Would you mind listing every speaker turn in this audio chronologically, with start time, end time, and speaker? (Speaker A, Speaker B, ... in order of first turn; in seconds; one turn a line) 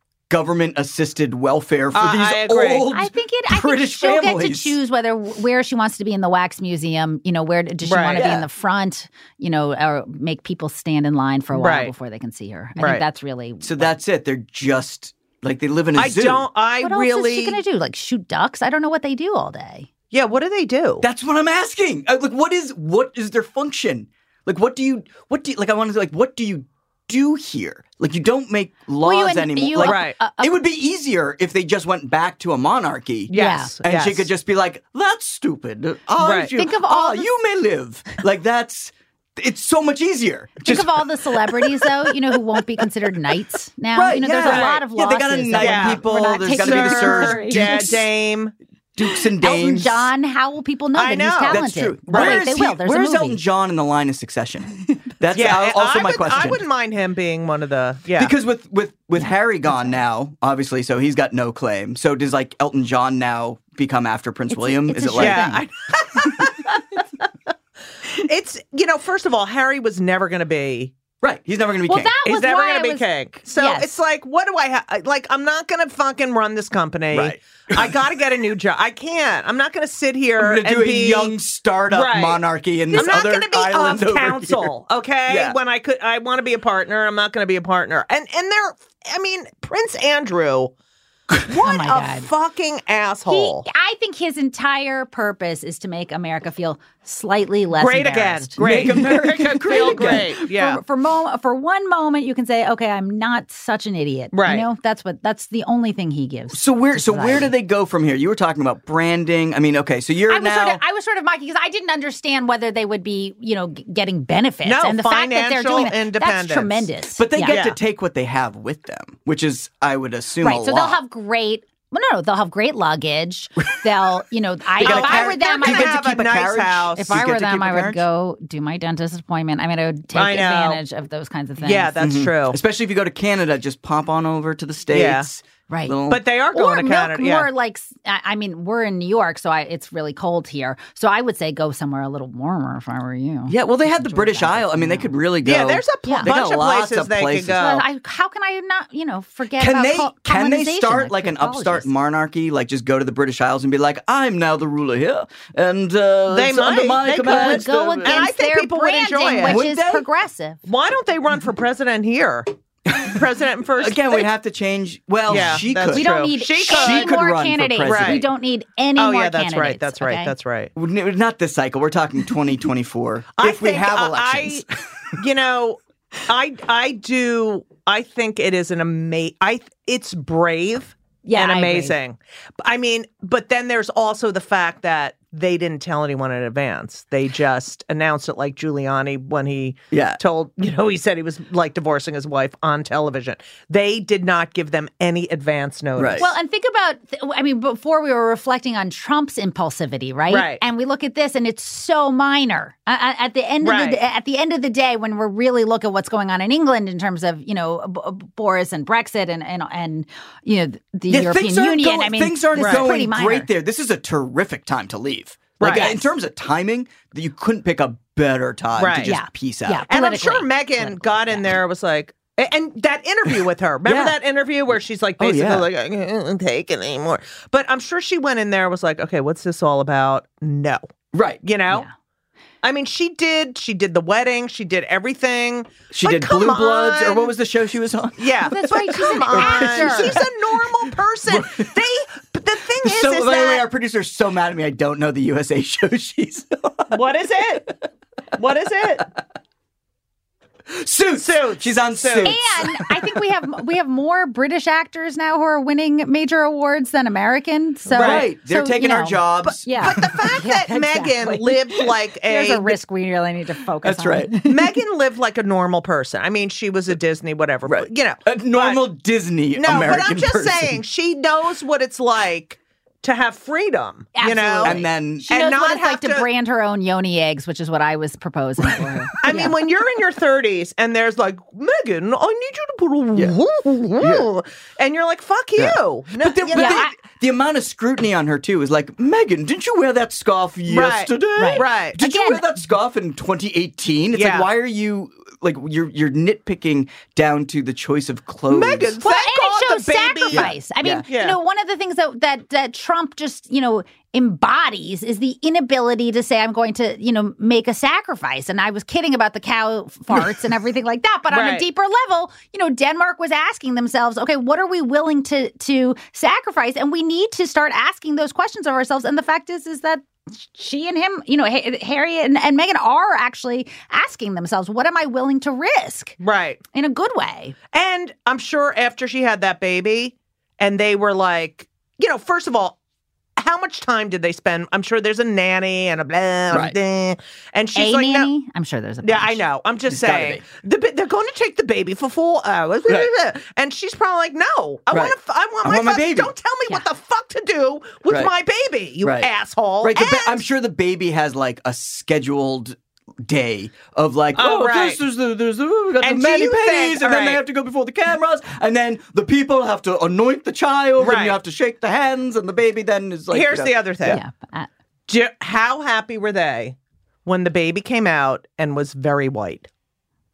Speaker A: 0.3-4.8
Speaker B: 1.9-2.9
Speaker C: 2.9-13.9
Speaker B: 7.8-8.4
Speaker B: 11.5-11.9
Speaker B: 12.8-13.0
Speaker A: 13.6-16.5
Speaker B: 15.9-17.6
Speaker C: 16.8-19.9
Speaker B: 20.1-21.1
Speaker A: 21.0-42.1
Speaker C: 29.0-30.6
Speaker B: 29.8-30.2
Speaker B: 33.3-34.3
Speaker C: 33.3-33.8
Speaker B: 36.2-36.5
Speaker C: 36.5-37.3
Speaker C: 40.6-48.0
Speaker A: 43.9-48.1
Speaker B: 44.4-44.8
Speaker B: 45.6-48.5
Speaker A: 49.0-50.1
Speaker C: 49.1-53.4
Speaker B: 51.0-52.4
Speaker A: 51.5-56.7
Speaker B: 55.3-58.3
Speaker A: 58.1-65.5
Speaker C: 64.5-65.6
Speaker B: 65.1-66.8
Speaker B: 68.1-70.9
Speaker A: 71.2-72.1
Speaker C: 71.9-74.0
Speaker B: 72.2-81.3
Speaker A: 77.1-78.0
Speaker A: 80.4-84.7
Speaker B: 81.9-82.4
Speaker C: 82.9-83.2
Speaker B: 82.9-90.7
Speaker A: 85.3-85.6
Speaker B: 91.3-93.7
Speaker C: 91.6-92.3
Speaker C: 93.3-107.5
Speaker B: 97.8-100.8
Speaker A: 98.6-100.3
Speaker B: 104.3-104.7
Speaker A: 106.5-110.8
Speaker C: 110.3-117.6
Speaker B: 114.6-116.9
Speaker A: 117.2-121.0
Speaker B: 117.5-117.8
Speaker C: 120.4-125.9
Speaker A: 124.8-128.0
Speaker B: 124.8-127.1
Speaker C: 127.0-131.9
Speaker B: 130.1-130.8
Speaker B: 131.6-132.6
Speaker A: 132.0-136.2
Speaker B: 134.9-135.3
Speaker C: 135.7-136.0
Speaker B: 136.1-137.5
Speaker C: 136.5-145.1
Speaker A: 143.5-147.8
Speaker B: 145.4-147.9
Speaker C: 146.1-146.3
Speaker C: 147.6-151.9
Speaker A: 149.6-158.2
Speaker B: 156.3-159.6
Speaker C: 157.0-160.6
Speaker A: 159.4-160.1
Speaker B: 160.7-164.3
Speaker A: 163.8-168.3
Speaker B: 165.3-167.2
Speaker C: 165.9-170.3
Speaker B: 167.9-168.2
Speaker B: 169.0-170.7
Speaker A: 170.8-174.6
Speaker B: 173.4-196.3
Speaker C: 181.2-181.9
Speaker A: 189.9-190.2
Speaker A: 195.9-196.3
Speaker C: 196.2-213.5
Speaker B: 200.3-200.6
Speaker B: 203.6-204.0
Speaker A: 211.1-219.9
Speaker B: 212.6-212.9
Speaker B: 215.6-216.0
Speaker C: 215.6-216.0
Speaker B: 218.8-219.1
Speaker C: 219.1-221.6
Speaker B: 219.9-230.8
Speaker A: 223.8-224.2
Speaker A: 225.2-225.7
Speaker A: 231.1-231.4
Speaker B: 231.4-231.9
Speaker B: 232.6-237.3
Speaker A: 235.9-240.2
Speaker B: 238.2-243.6
Speaker C: 238.5-240.2
Speaker A: 241.3-241.7
Speaker A: 242.8-247.0
Speaker B: 246.9-247.7
Speaker B: 248.4-249.1
Speaker A: 250.7-253.0
Speaker B: 251.2-252.4
Speaker C: 252.2-264.8
Speaker B: 257.9-258.3
Speaker A: 258.0-260.0
Speaker B: 259.4-262.8
Speaker A: 263.8-264.3
Speaker B: 264.4-268.8
Speaker A: 267.7-270.8
Speaker B: 269.6-276.3
Speaker C: 274.1-279.6
Speaker A: 274.6-275.3
Speaker B: 279.2-286.9
Speaker A: 284.0-284.3
Speaker A: 285.6-298.9
Speaker C: 286.5-286.9
Speaker B: 290.7-292.0
Speaker C: 291.4-292.5
Speaker B: 294.1-294.5
Speaker B: 298.5-301.4
Speaker C: 299.0-326.2
Speaker A: 300.3-301.1
Speaker B: 311.3-311.7
Speaker B: 326.2-326.6
Speaker C: 326.7-327.6
Speaker B: 327.7-332.8
Speaker B: 333.4-338.3
Speaker A: 336.5-336.8
Speaker C: 337.8-339.4
Speaker B: 339.0-350.4
Speaker A: 339.9-340.4
Speaker A: 344.9-346.4
Speaker A: 349.0-349.3
Speaker A: 349.8-364.2
Speaker B: 354.4-355.0
Speaker B: 356.0-357.4
Speaker B: 361.0-361.4
Speaker B: 363.3-364.2
Speaker C: 364.1-364.7
Speaker B: 365.1-369.7